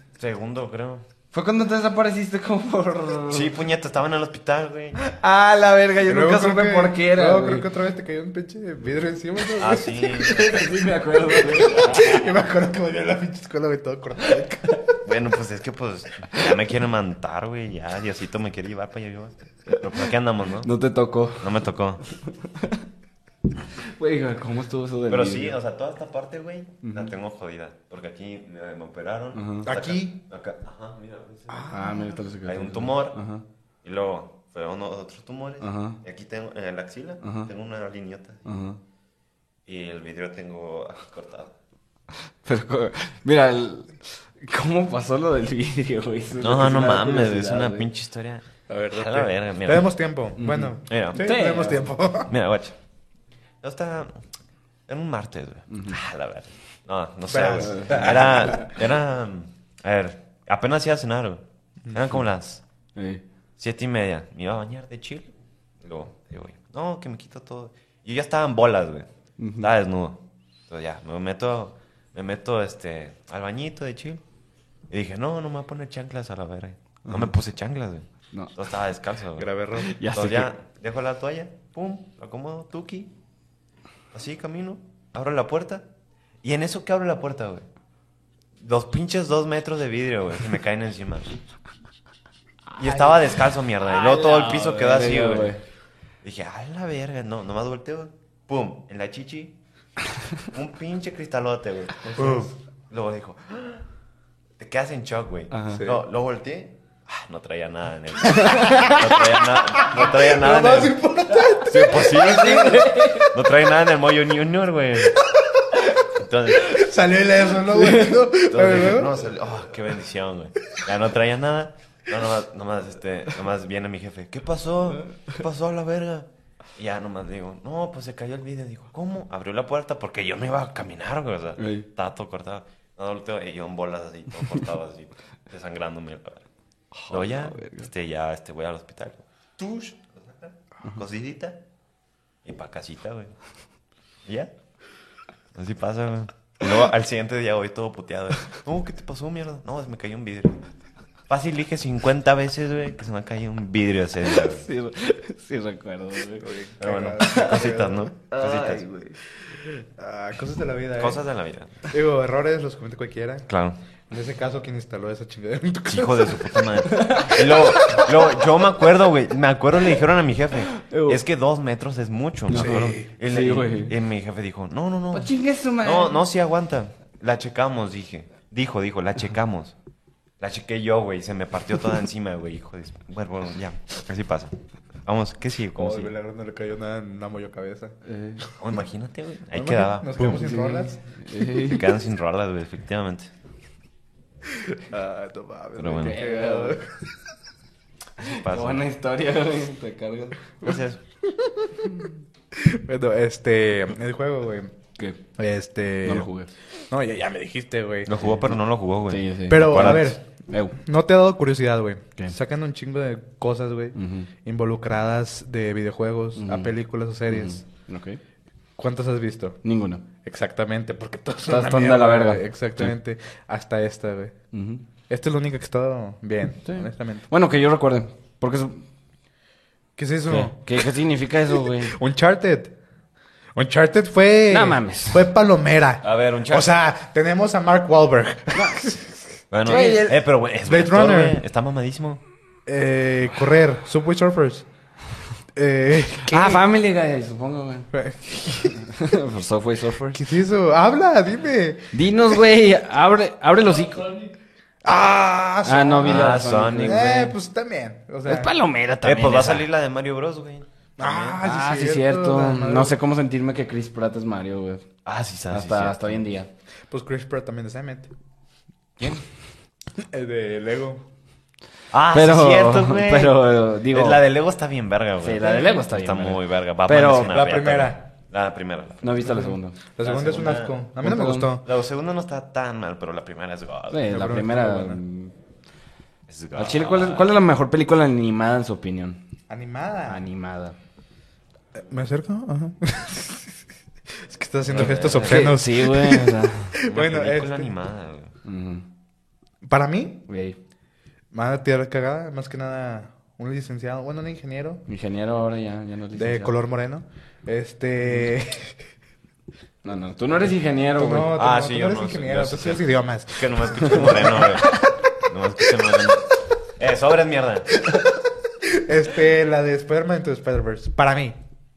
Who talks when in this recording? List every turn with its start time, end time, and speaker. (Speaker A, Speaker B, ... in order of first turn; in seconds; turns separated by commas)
Speaker A: 0.2-1.0, Speaker B: 1.3-3.5, Speaker A: 3.3-5.1, Speaker B: 5.0-7.7, Speaker C: 6.0-10.5, Speaker A: 9.6-10.7, Speaker B: 10.1-12.3, Speaker C: 11.3-14.8, Speaker A: 15.0-20.7, Speaker B: 20.6-21.5, Speaker A: 21.4-22.0, Speaker B: 22.1-22.8, Speaker B: 23.7-25.6, Speaker A: 25.1-31.8, Speaker B: 26.8-27.1, Speaker B: 29.3-29.7, Speaker C: 29.6-30.2, Speaker C: 31.5-32.2, Speaker B: 31.7-33.4, Speaker A: 32.5-33.2, Speaker A: 33.8-38.5, Speaker B: 35.6-36.0, Speaker B: 37.2-37.5, Speaker B: 38.5-38.8, Speaker A: 39.7-41.5, Speaker B: 42.4-47.9, Speaker A: 46.4-49.9, Speaker C: 48.7-52.3, Speaker B: 50.4-51.9, Speaker A: 50.9-51.3, Speaker A: 52.3-52.8, Speaker A: 53.6-54.2, Speaker A: 54.9-62.6, Speaker B: 55.7-56.0, Speaker C: 57.3-58.7, Speaker B: 57.6-58.7, Speaker B: 63.0-63.2, Speaker A: 63.6-65.3, Speaker A: 65.8-69.1, Speaker B: 69.4-69.7, Speaker A: 69.6-74.2, Speaker A: 74.9-79.5, Speaker C: 79.4-80.0, Speaker B: 79.8-80.5, Speaker A: 80.1-83.1, Speaker A: 84.1-85.9, Speaker A: 86.4-87.7, Speaker A: 88.6-91.3, Speaker A: 92.8-95.5, Speaker B: 92.8-93.1, Speaker B: 93.9-95.6, Speaker A: 96.2-99.5, Speaker A: 100.4-103.8, Speaker C: 102.1-102.5, Speaker A: 104.6-115.2, Speaker B: 105.5-105.8, Speaker C: 105.7-106.0, Speaker B: 108.3-109.0, Speaker C: 108.7-109.0, Speaker C: 109.8-113.2, Speaker B: 112.2-113.3, Speaker C: 115.2-115.9, Speaker A: 116.0-116.9, Speaker C: 116.5-119.3, Speaker B: 117.8-118.2, Speaker A: 118.3-136.4, Speaker B: 131.6-131.9, Speaker B: 136.9-137.9, Speaker A: 137.1-141.6, Speaker A: 142.4-143.3, Speaker A: 144.3-144.5, Speaker A: 145.6-150.6, Speaker A: 151.3-154.6, Speaker B: 154.3-156.6, Speaker C: 156.4-158.1, Speaker A: 156.8-158.9, Speaker B: 157.3-157.7, Speaker B: 158.3-159.2, Speaker C: 159.6-161.2, Speaker A: 161.0-161.9, Speaker C: 161.9-163.5, Speaker A: 163.5-163.8, Speaker C: 164.1-166.9, Speaker A: 165.9-175.3, Speaker B: 166.9-168.1, Speaker B: 170.7-171.2, Speaker B: 172.5-173.9, Speaker C: 172.5-173.1, Speaker B: 175.1-176.2, Speaker A: 175.8-179.7, Speaker A: 180.4-184.5, Speaker A: 185.1-186.1, Speaker C: 185.8-188.5, Speaker B: 188.0-188.4, Speaker A: 188.6-190.4, Speaker C: 189.5-191.0, Speaker B: 190.2-191.9, Speaker A: 191.5-193.3, Speaker C: 194.5-197.0, Speaker A: 195.8-196.2, Speaker B: 196.0-196.8, Speaker B: 198.2-200.6, Speaker A: 198.2-198.8, Speaker A: 200.6-201.0, Speaker C: 201.4-201.9, Speaker C: 202.5-204.7, Speaker C: 205.4-206.3, Speaker B: 206.0-206.5, Speaker C: 206.9-208.1, Speaker A: 208.1-210.2, Speaker B: 209.1-210.8, Speaker C: 209.5-210.2, Speaker C: 210.8-217.6, Speaker B: 213.9-214.3, Speaker B: 216.4-216.7, Speaker B: 217.3-218.2, Speaker C: 218.8-219.6, Speaker B: 219.6-220.1, Speaker C: 220.2-224.3, Speaker B: 221.5-222.9, Speaker B: 224.5-224.8, Speaker C: 225.1-227.3, Speaker B: 226.7-228.8, Speaker C: 230.0-230.9, Speaker B: 230.3-232.0, Speaker C: 231.5-232.7, Speaker C: 233.6-240.0, Speaker B: 234.5-235.3, Speaker A: 236.0-236.7, Speaker B: 238.5-238.9, Speaker A: 239.5-242.2, Speaker B: 239.7-240.2, Speaker C: 240.7-241.4, Speaker C: 242.7-244.7, Speaker C: 245.6-246.6, Speaker B: 246.2-247.9, Speaker C: 247.9-248.8, Speaker B: 248.7-250.2, Speaker C: 250.1-252.4, Speaker B: 251.9-254.3, Speaker C: 254.8-258.5, Speaker B: 255.7-257.3, Speaker A: 256.0-257.0, Speaker B: 258.3-259.7, Speaker A: 259.0-261.4, Speaker C: 261.0-263.0, Speaker B: 261.4-264.9, Speaker A: 265.1-266.2, Speaker B: 265.5-266.5, Speaker C: 266.9-268.1, Speaker C: 270.0-271.1, Speaker A: 271.9-279.4, Speaker B: 272.1-274.2, Speaker B: 275.2-277.4, Speaker C: 277.3-278.1, Speaker B: 279.0-279.8, Speaker C: 279.2-281.6, Speaker A: 280.0-280.8, Speaker B: 281.0-281.6, Speaker A: 281.6-284.1, Speaker B: 283.9-285.3, Speaker C: 284.1-285.0, Speaker A: 286.3-287.3, Speaker B: 286.6-289.2, Speaker C: 289.5-290.2, Speaker B: 290.1-290.8, Speaker C: 291.8-293.5, Speaker C: 294.2-297.7, Speaker A: 294.7-295.6, Speaker B: 295.2-296.8, Speaker A: 296.8-298.3, Speaker B: 298.4-298.9, Speaker C: 299.6-300.2, Speaker B: 300.3-300.6, Speaker C: 301.3-304.8, Speaker B: 304.9-306.6, Speaker C: 306.1-308.8, Speaker B: 309.8-311.4, Speaker C: 311.0-315.1, Speaker A: 311.4-317.7, Speaker C: 317.7-321.4